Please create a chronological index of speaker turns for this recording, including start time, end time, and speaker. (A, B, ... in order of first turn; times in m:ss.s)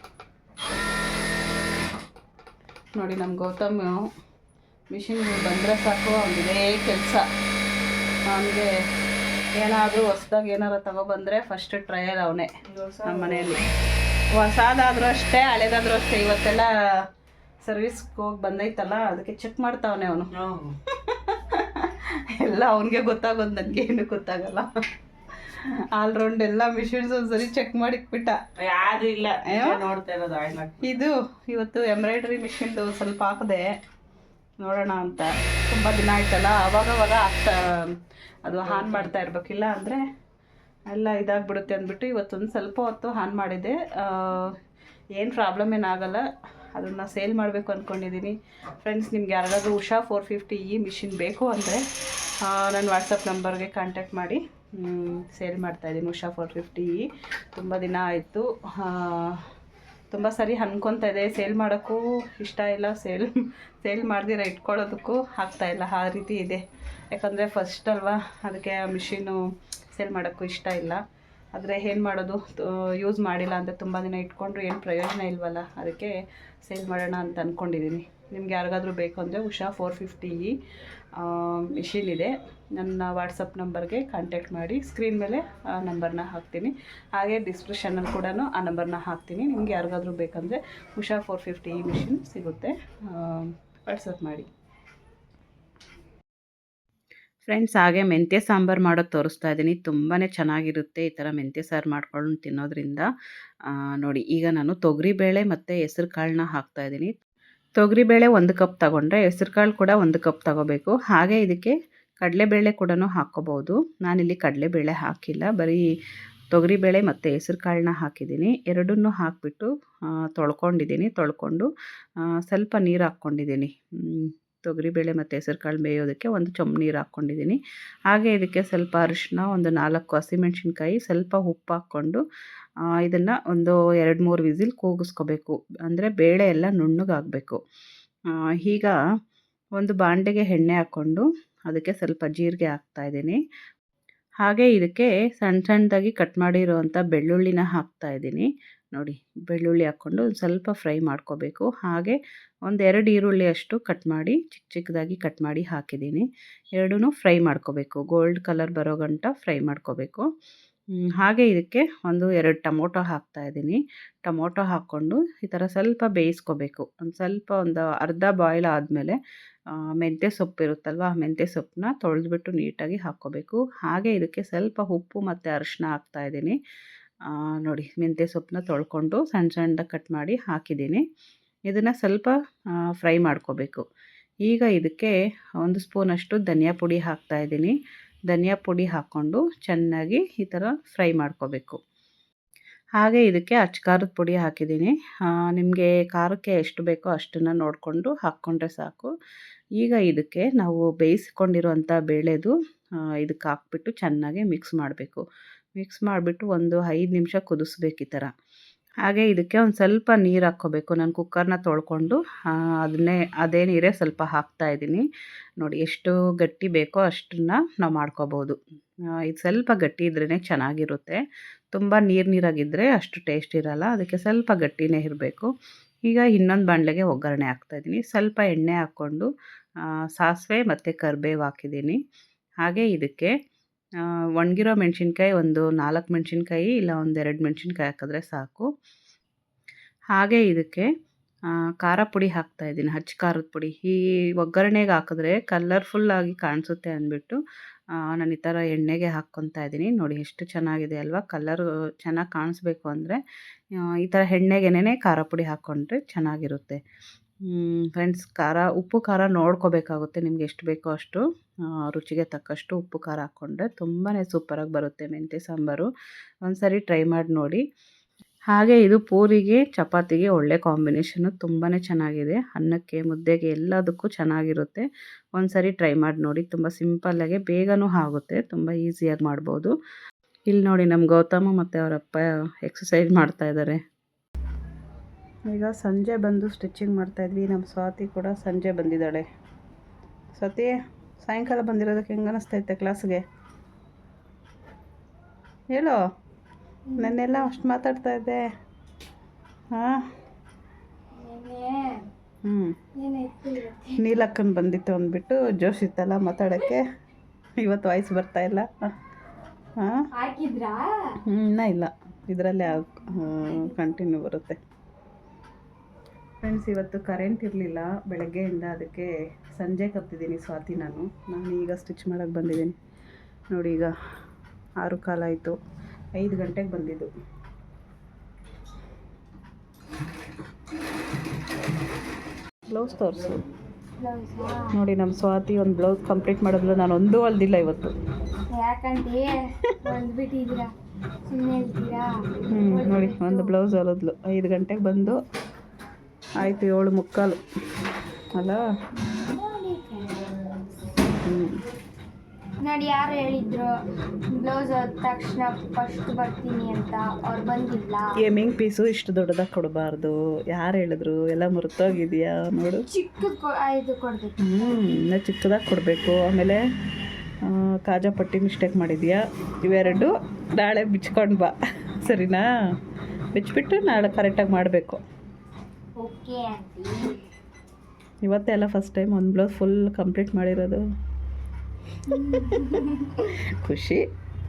0:02.9-0:04.0 A
0:04.9-0:07.2 A
0:08.3-0:08.7 A
0:09.6-0:12.5 A
0:12.7-0:13.6 B
0:13.0-0:13.6 A
0:14.3-0:16.7 A
0:17.6-0:20.3 A
0:20.4-0:20.7 B
0:21.1-0:24.7 A
0:25.5-0:28.4 A
0:28.6-0:30.8 B
0:29.1-0:29.8 A
0:30.8-0:33.7 A
0:34.6-0:40.0 A
0:38.8-0:39.0 B
0:40.9-0:44.6 A
0:45.2-0:51.8 A
0:52.4-0:59.4 A
1:00.1-1:09.4 A
1:09.9-1:11.0 A
1:11.5-1:20.6 A
1:21.2-1:34.5 A
1:37.4-1:43.1 A
1:43.7-1:47.2 A
1:47.8-1:55.8 A
1:56.5-1:59.7 A
2:00.3-2:01.7 A
2:02.4-2:12.2 A
2:13.0-2:17.6 A
2:18.3-2:18.9 A
2:19.8-2:23.4 A
2:24.4-2:40.3 A
2:41.2-2:49.2 A
2:49.8-2:56.6 A
2:57.3-3:01.0 A
3:01.7-3:02.4 A
3:02.9-3:03.8 A
3:04.4-3:07.7 A
3:08.3-3:11.8 A
3:13.0-3:19.1 A
3:19.8-3:22.5 A
3:23.2-3:25.2 A
3:25.8-3:28.3 A
3:29.0-3:35.0 A
3:35.6-3:38.6 A
3:39.2-3:41.2 A
3:41.7-3:45.5 A
3:46.1-3:49.3 A
3:50.2-3:52.0 A
3:52.6-3:53.3 A
3:54.0-3:58.7 A
4:00.1-4:00.9 A
4:01.8-4:07.4 A
4:08.0-4:13.2 A
4:13.8-4:16.8 A
4:17.5-4:25.9 A
4:26.4-4:27.6 A
4:28.5-4:39.7 A
4:40.5-4:43.8 A
4:45.5-4:49.2 A
4:50.3-4:53.2 A
4:55.7-4:56.0 A
4:56.9-4:57.5 C
4:57.0-4:58.4 A
4:59.7-5:00.0 A
5:01.2-5:02.0 C
5:02.4-5:02.8 A
5:02.9-5:04.0 C
5:04.0-5:06.8 A
5:07.6-5:08.7 A
5:09.8-5:10.0 A
5:10.1-5:11.2 C
5:11.3-5:14.6 A
5:13.2-5:13.7 C
5:16.4-5:22.8 A
5:23.5-5:23.9 A
5:24.8-5:25.6 A
5:26.1-5:27.1 A
5:32.7-5:33.4 A
5:34.0-5:34.7 C
5:34.7-5:37.9 A
5:38.5-5:40.7 C
5:41.3-5:43.5 C
5:42.5-5:45.2 A
5:46.4-5:47.4 A
5:48.3-5:48.6 A
5:49.1-5:50.6 C
5:51.2-5:51.6 A
5:52.6-5:53.7 C
5:54.4-5:58.1 C
5:58.2-6:02.8 A
6:02.8-6:04.5 C
6:04.4-6:06.6 A
6:07.4-6:12.4 A
6:13.3-6:15.0 A
6:16.0-6:17.2 C
6:18.2-6:20.8 A
6:22.1-6:23.1 C
6:22.1-6:24.0 A